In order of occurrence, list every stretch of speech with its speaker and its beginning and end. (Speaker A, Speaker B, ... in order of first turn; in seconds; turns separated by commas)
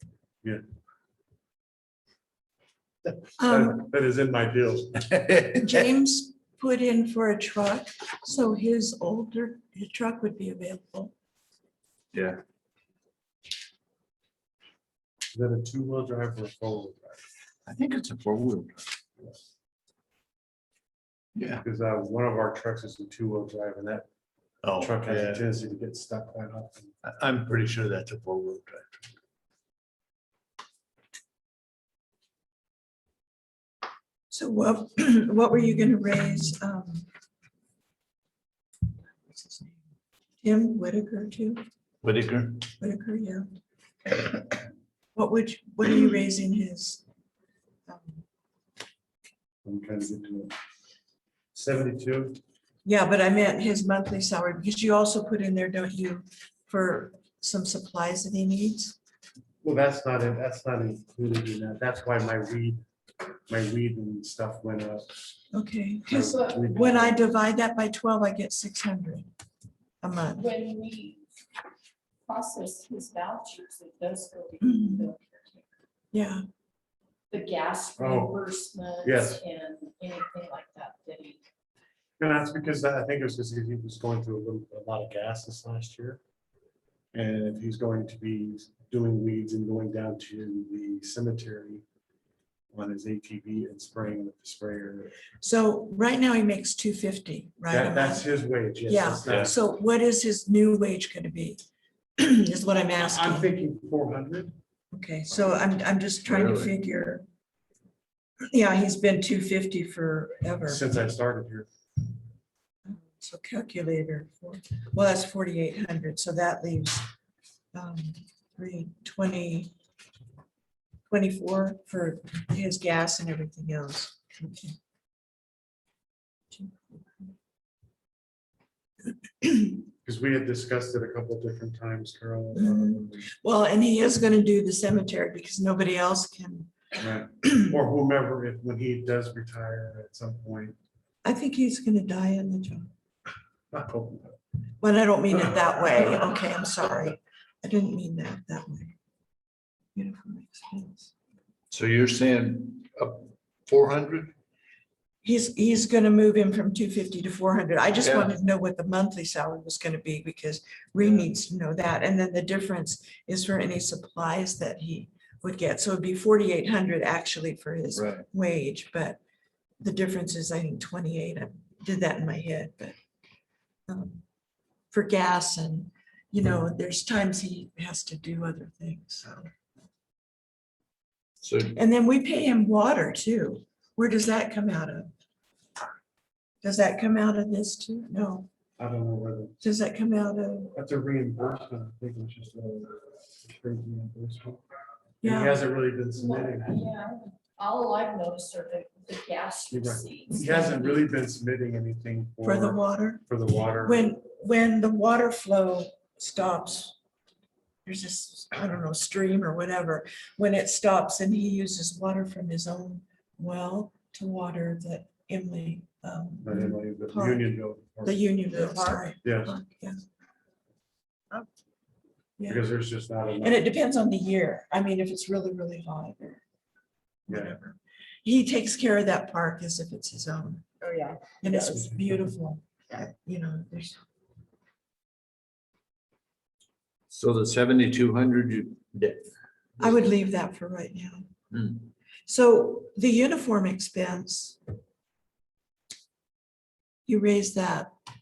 Speaker A: 3.4-3.9, Speaker B: 3.4-5.2, Speaker A: 5.5-11.1, Speaker C: 12.1-12.4, Speaker B: 15.3-17.2, Speaker C: 17.7-18.9, Speaker C: 21.4-21.6, Speaker B: 21.6-24.1, Speaker C: 24.6-25.4, Speaker B: 24.8-26.9, Speaker C: 27.0-28.9, Speaker A: 34.3-37.1, Speaker A: 39.3-39.8, Speaker A: 40.4-41.6, Speaker C: 42.0-42.6, Speaker A: 42.8-43.5, Speaker A: 45.1-47.0, Speaker A: 47.9-48.2, Speaker B: 49.6-50.5, Speaker B: 51.5-52.4, Speaker A: 52.9-59.0, Speaker B: 59.6-62.8, Speaker B: 63.5-65.1, Speaker A: 65.5-69.3, Speaker B: 66.1-67.2, Speaker D: 66.1-66.6, Speaker A: 70.0-70.5, Speaker D: 70.3-71.2, Speaker D: 72.3-75.7, Speaker A: 74.6-75.1, Speaker A: 76.1-76.5, Speaker D: 77.3-81.4, Speaker B: 78.0-78.4, Speaker B: 79.0-79.4, Speaker B: 82.2-86.2, Speaker B: 87.1-91.8, Speaker B: 92.7-95.2, Speaker A: 95.4-98.3, Speaker B: 97.7-99.5, Speaker A: 98.9-101.6, Speaker A: 102.2-103.5, Speaker B: 103.0-104.5, Speaker A: 104.9-107.3, Speaker C: 106.3-106.7, Speaker A: 108.5-110.8, Speaker B: 110.7-111.7, Speaker A: 112.9-117.1, Speaker A: 117.7-119.7, Speaker A: 121.1-124.8, Speaker A: 126.5-127.3, Speaker A: 129.4-129.8, Speaker B: 130.0-133.3, Speaker A: 132.5-136.7, Speaker B: 137.0-140.8, Speaker A: 137.4-137.7, Speaker A: 141.2-142.9, Speaker B: 143.7-144.3, Speaker A: 144.8-148.9, Speaker A: 149.9-151.1, Speaker C: 151.7-154.3, Speaker A: 155.2-169.2, Speaker C: 158.0-158.3, Speaker C: 168.0-168.3, Speaker A: 169.8-172.9, Speaker A: 173.9-174.2, Speaker A: 174.9-179.5, Speaker C: 181.4-181.8, Speaker A: 181.7-185.1, Speaker A: 186.6-188.5, Speaker B: 188.8-189.6, Speaker A: 189.6-190.7, Speaker B: 190.7-194.6, Speaker A: 195.2-195.6, Speaker B: 195.2-196.8, Speaker D: 196.2-201.1, Speaker B: 199.7-204.1, Speaker A: 202.4-203.2, Speaker A: 203.8-206.9, Speaker A: 207.9-217.5, Speaker B: 216.4-218.5, Speaker A: 218.0-220.0, Speaker D: 218.6-219.1, Speaker B: 219.2-219.6, Speaker A: 222.4-222.7, Speaker B: 222.5-223.6, Speaker A: 223.4-226.4, Speaker A: 227.3-230.7, Speaker B: 227.3-227.6, Speaker D: 230.8-231.2, Speaker A: 231.4-234.0, Speaker C: 237.1-239.3, Speaker A: 239.8-241.3, Speaker A: 242.3-244.6, Speaker A: 247.1-247.9